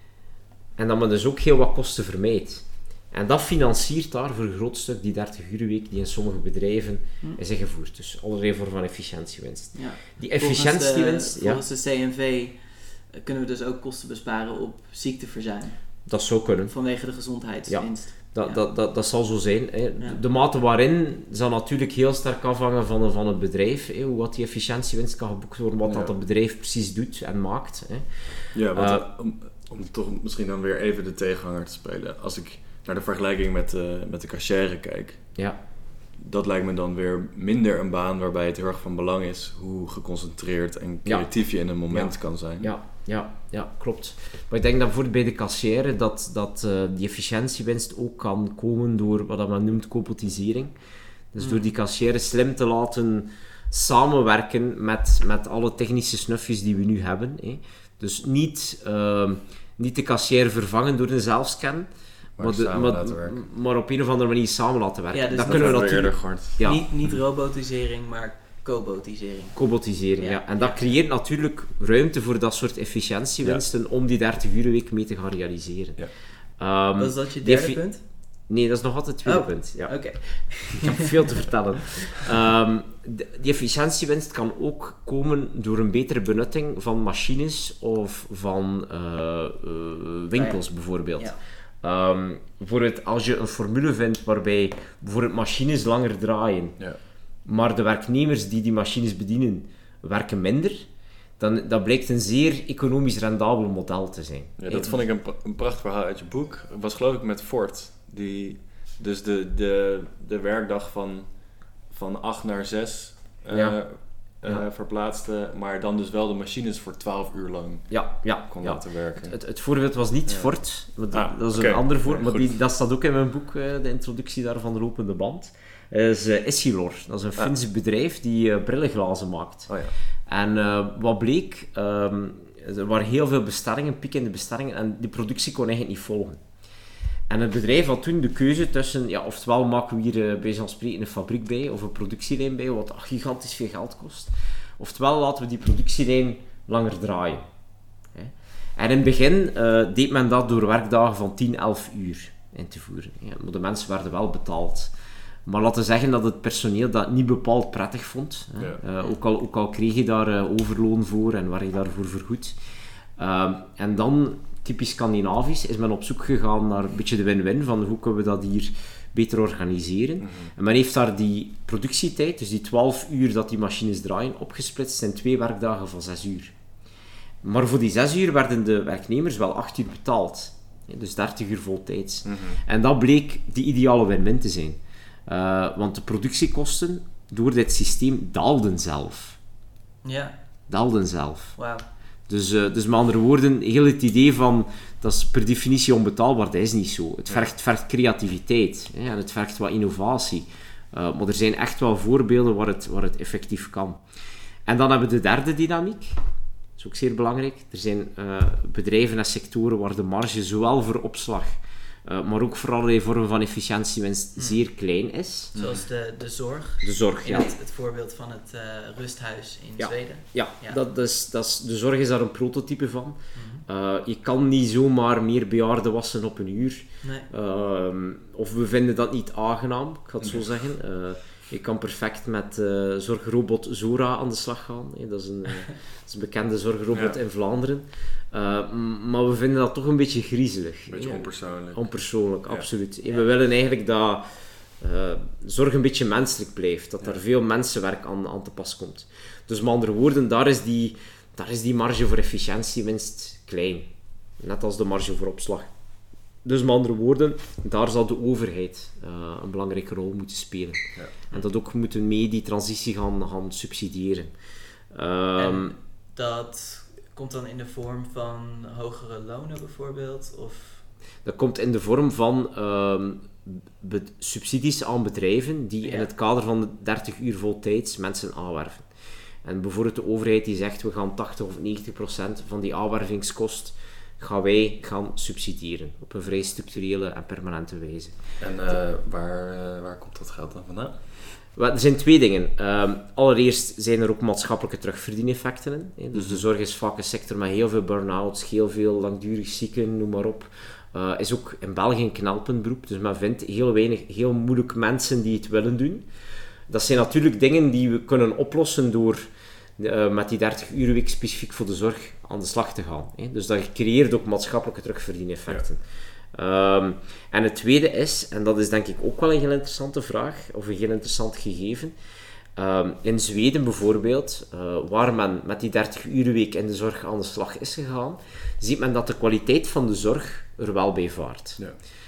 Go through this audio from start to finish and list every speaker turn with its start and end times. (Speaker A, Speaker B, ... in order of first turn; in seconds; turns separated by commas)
Speaker A: 0.8-11.6, Speaker B: 9.7-16.1, Speaker A: 16.1-16.7, Speaker B: 16.7-18.6, Speaker A: 17.7-29.1, Speaker C: 25.9-26.1, Speaker C: 28.5-35.3, Speaker C: 36.2-42.7, Speaker A: 41.0-50.7, Speaker A: 51.3-66.8, Speaker B: 51.4-51.7, Speaker C: 62.4-63.4, Speaker B: 65.1-69.6, Speaker C: 65.4-67.2, Speaker A: 69.5-77.9, Speaker B: 70.2-70.9, Speaker B: 77.0-78.0, Speaker A: 78.5-96.8, Speaker B: 79.2-82.1, Speaker B: 90.3-91.4, Speaker A: 97.5-100.9, Speaker A: 101.4-105.0, Speaker C: 104.6-119.4, Speaker A: 113.5-114.7, Speaker A: 117.9-129.7, Speaker C: 120.3-120.5, Speaker C: 121.1-122.6, Speaker C: 129.7-129.9, Speaker A: 130.3-136.4, Speaker A: 137.3-147.5, Speaker A: 148.1-154.9, Speaker A: 155.5-162.6, Speaker C: 158.6-158.8, Speaker A: 163.2-176.5, Speaker C: 170.2-170.5, Speaker A: 177.4-189.4, Speaker C: 182.2-182.6, Speaker B: 190.0-190.3, Speaker A: 190.7-191.6, Speaker B: 191.6-191.8, Speaker A: 192.3-204.0, Speaker A: 204.7-206.2, Speaker A: 206.8-215.6, Speaker C: 215.6-215.8, Speaker B: 215.6-220.8, Speaker A: 216.8-217.5, Speaker A: 219.8-244.3, Speaker B: 223.3-223.6, Speaker B: 227.0-227.3, Speaker C: 230.2-230.5, Speaker C: 236.9-237.2, Speaker C: 240.9-241.9, Speaker A: 244.8-255.7, Speaker A: 256.4-264.4, Speaker A: 264.9-265.7, Speaker B: 265.4-270.9, Speaker A: 271.2-278.9, Speaker B: 275.8-276.1, Speaker A: 279.4-288.2, Speaker C: 288.4-291.0, Speaker A: 291.6-306.1, Speaker C: 296.1-296.4, Speaker A: 306.7-321.9, Speaker A: 322.6-331.6